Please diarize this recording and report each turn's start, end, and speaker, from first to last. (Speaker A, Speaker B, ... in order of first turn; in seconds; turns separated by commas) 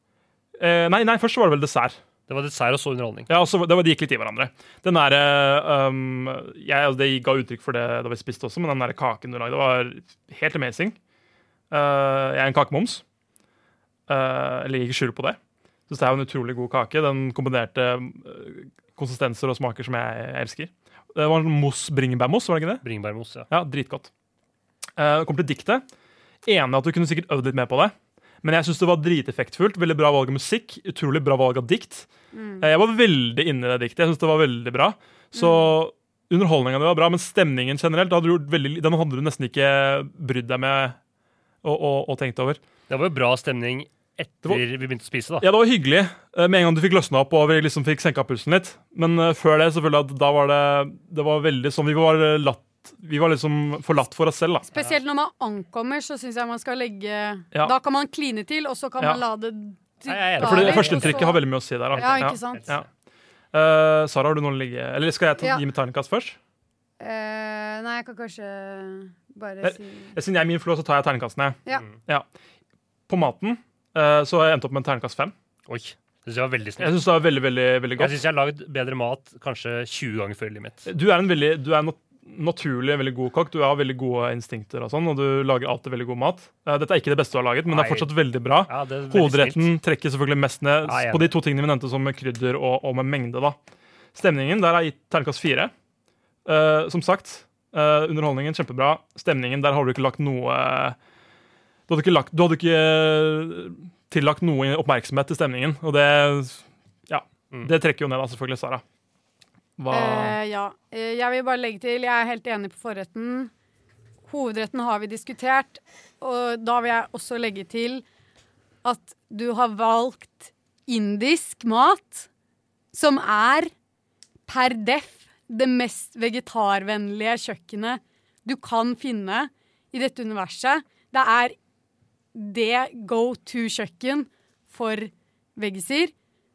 Speaker A: 0.6-2.0, Speaker B: 2.3-3.3, Speaker A: 3.3-11.0, Speaker A: 11.7-13.0, Speaker A: 14.1-15.4, Speaker A: 15.9-22.8, Speaker B: 22.8-23.5, Speaker A: 23.5-24.1, Speaker A: 25.0-25.8, Speaker A: 26.4-32.1, Speaker C: 32.3-32.7, Speaker A: 32.6-41.0, Speaker C: 35.3-35.7, Speaker A: 41.6-42.6, Speaker B: 42.9-45.5, Speaker A: 45.4-54.7, Speaker C: 54.7-61.4, Speaker B: 60.1-61.3, Speaker A: 60.4-62.9, Speaker B: 61.9-62.9, Speaker C: 61.9-62.6, Speaker A: 63.5-66.4, Speaker C: 67.0-70.1, Speaker A: 69.6-72.3, Speaker B: 71.7-72.0, Speaker A: 73.1-75.3, Speaker B: 75.7-77.0, Speaker A: 76.8-78.2, Speaker B: 78.0-80.9, Speaker A: 80.8-93.6, Speaker B: 87.7-88.1, Speaker B: 88.6-89.7, Speaker B: 90.8-91.3, Speaker A: 94.1-95.7, Speaker A: 96.5-101.0, Speaker A: 101.9-108.8, Speaker A: 109.8-110.4, Speaker C: 109.9-113.5, Speaker C: 114.3-118.0, Speaker C: 118.8-122.3, Speaker C: 122.9-123.7, Speaker C: 124.5-131.6, Speaker C: 132.3-136.1